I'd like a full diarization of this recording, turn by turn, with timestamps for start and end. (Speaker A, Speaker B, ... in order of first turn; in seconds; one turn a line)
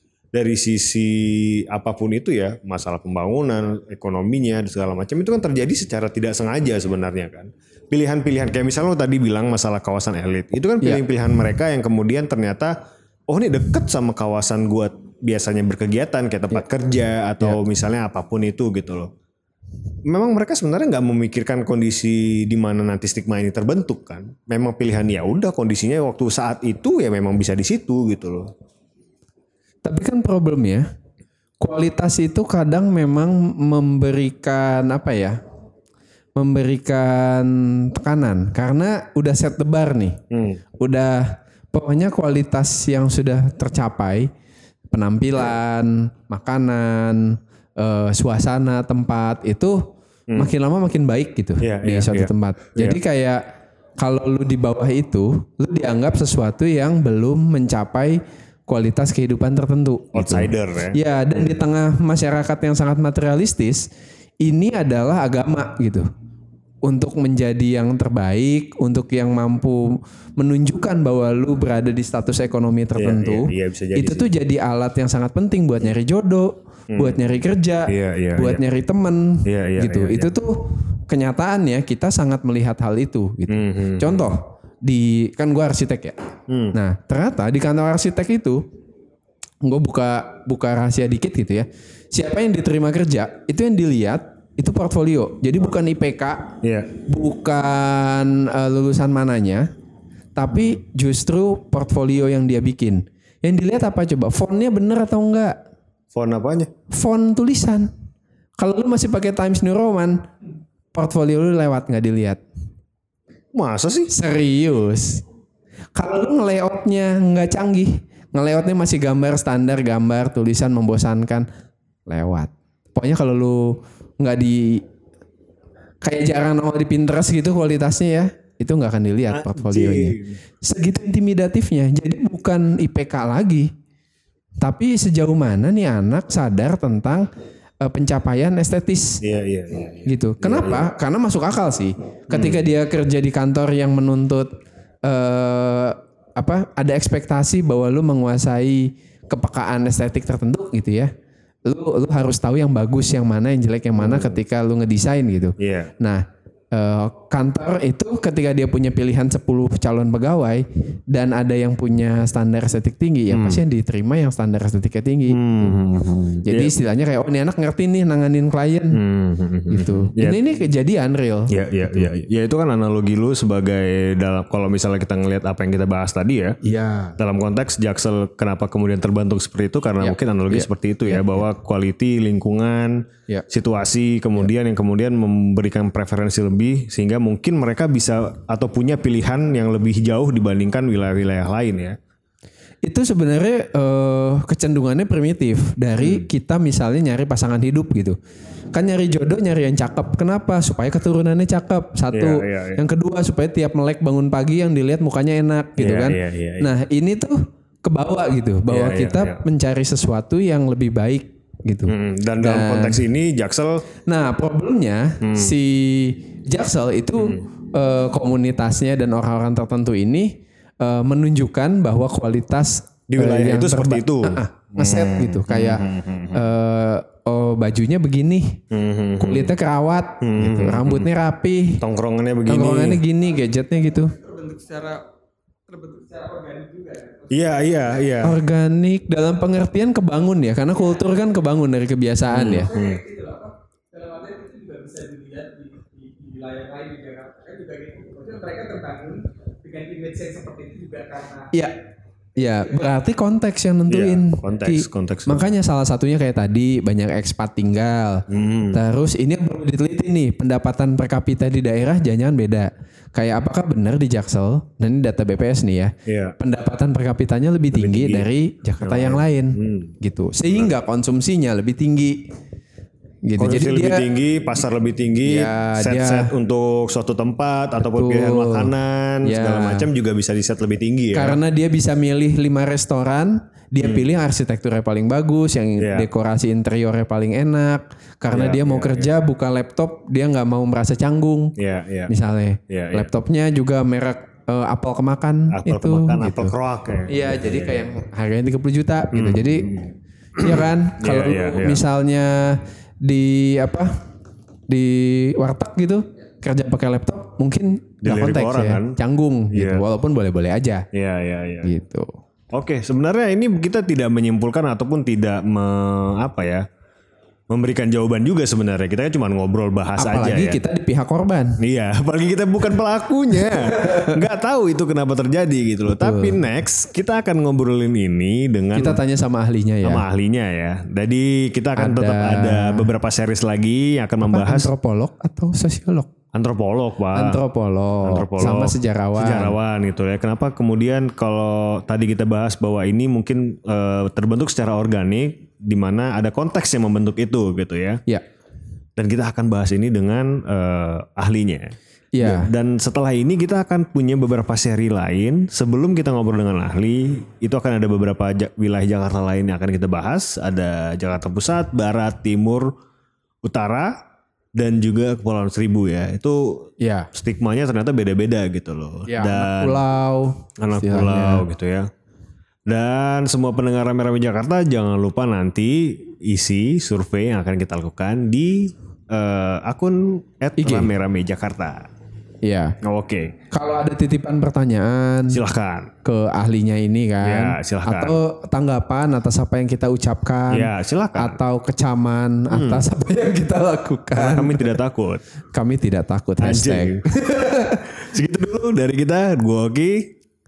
Speaker A: 0.3-12.8
Speaker A: 13.3-19.1
Speaker A: 20.1-28.5
Speaker B: 29.8-30.9
Speaker B: 31.6-35.4
Speaker B: 36.4-40.2
Speaker A: 40.3-40.6
Speaker B: 40.8-44.3
Speaker B: 44.9-53.5
Speaker A: 51.6-53.0
Speaker B: 54.0-63.9
Speaker A: 60.1-61.6
Speaker B: 64.4-66.1
Speaker B: 66.8-86.2
Speaker A: 73.0-74.3
Speaker A: 76.9-77.2
Speaker A: 77.9-78.6
Speaker A: 79.5-80.3
Speaker A: 83.5-84.3
Speaker A: 86.5-86.8
Speaker B: 86.7-88.6
Speaker B: 89.6-99.7
Speaker A: 96.6-96.9
Speaker B: 100.3-105.6
Speaker A: 106.1-106.7
Speaker B: 106.9-107.9
Speaker B: 108.6-110.3
Speaker B: 110.9-112.4
Speaker A: 113.5-114.1
Speaker B: 114.1-115.2
Speaker B: 116.0-121.5
Speaker B: 122.1-124.8
Speaker B: 126.0-133.7
Speaker A: 129.3-130.4
Speaker B: 134.6-137.3
Speaker B: 137.8-139.2
Speaker A: 139.2-140.9
Speaker B: 140.1-144.5
Speaker A: 142.3-142.7
Speaker B: 145.1-151.1
Speaker B: 151.7-165.8
Speaker A: 153.9-154.4
Speaker A: 155.6-155.9
Speaker A: 163.3-163.6
Speaker A: 165.3-166.7
Speaker B: 166.4-169.0
Speaker A: 168.9-170.4
Speaker B: 169.7-171.5
Speaker A: 171.5-176.6
Speaker B: 176.6-177.2
Speaker A: 177.2-192.0
Speaker B: 180.0-181.5
Speaker B: 192.8-198.2
Speaker A: 196.0-196.3
Speaker B: 198.7-213.0
Speaker A: 202.1-202.8
Speaker A: 205.8-206.7
Speaker A: 208.7-209.4
Speaker A: 211.9-213.8
Speaker B: 214.1-228.6
Speaker A: 215.2-215.6
Speaker A: 223.1-226.5
Speaker A: 228.7-229.5
Speaker B: 229.2-231.8
Speaker A: 230.2-231.1
Speaker A: 231.8-233.0
Speaker B: 232.5-234.1
Speaker C: 234.1-235.0
Speaker C: 235.7-238.1
Speaker A: 237.3-238.4
Speaker B: 238.2-242.7
Speaker A: 242.3-243.0
Speaker C: 242.5-251.5
Speaker B: 252.4-272.3
Speaker C: 252.7-253.0
Speaker A: 253.9-255.5
Speaker A: 258.3-258.8
Speaker A: 266.1-266.4
Speaker A: 267.7-268.3
Speaker A: 268.8-269.9
Speaker B: 273.2-274.1
Speaker A: 273.4-281.4
Speaker B: 275.2-276.3
Speaker B: 277.9-278.7
Speaker B: 279.2-279.9
Speaker B: 281.1-291.6
Speaker A: 285.8-286.1
Speaker A: 288.3-289.1
Speaker A: 291.6-292.1
Speaker B: 292.1-296.5
Speaker A: 292.7-293.1
Speaker A: 295.5-297.9
Speaker B: 297.1-299.7
Speaker A: 299.1-301.8
Speaker B: 300.4-304.0
Speaker B: 304.7-310.9
Speaker A: 308.0-309.0
Speaker A: 309.5-309.8
Speaker A: 310.9-311.7
Speaker B: 311.6-312.1
Speaker A: 312.5-316.7
Speaker A: 317.5-320.6
Speaker B: 320.0-321.6
Speaker A: 321.6-329.0
Speaker B: 323.6-324.1
Speaker B: 325.9-326.4
Speaker B: 328.7-330.0
Speaker A: 329.8-334.7
Speaker B: 331.8-332.9
Speaker B: 334.2-336.1
Speaker A: 336.3-337.4
Speaker B: 337.1-339.6
Speaker A: 338.0-348.0
Speaker A: 349.0-362.7
Speaker B: 352.1-352.5
Speaker A: 363.4-364.0
Speaker A: 364.6-369.8
Speaker B: 366.8-367.1
Speaker B: 369.1-371.4
Speaker A: 370.6-371.9
Speaker A: 372.7-381.9
Speaker B: 380.6-380.9
Speaker B: 382.4-382.8
Speaker A: 382.8-383.4
Speaker B: 383.5-385.4
Speaker A: 385.3-385.9
Speaker B: 386.0-394.7
Speaker A: 387.2-388.2
Speaker A: 390.5-391.4
Speaker A: 392.5-392.9
Speaker A: 394.1-395.2
Speaker B: 395.5-397.9
Speaker A: 396.4-397.1
Speaker A: 397.9-400.1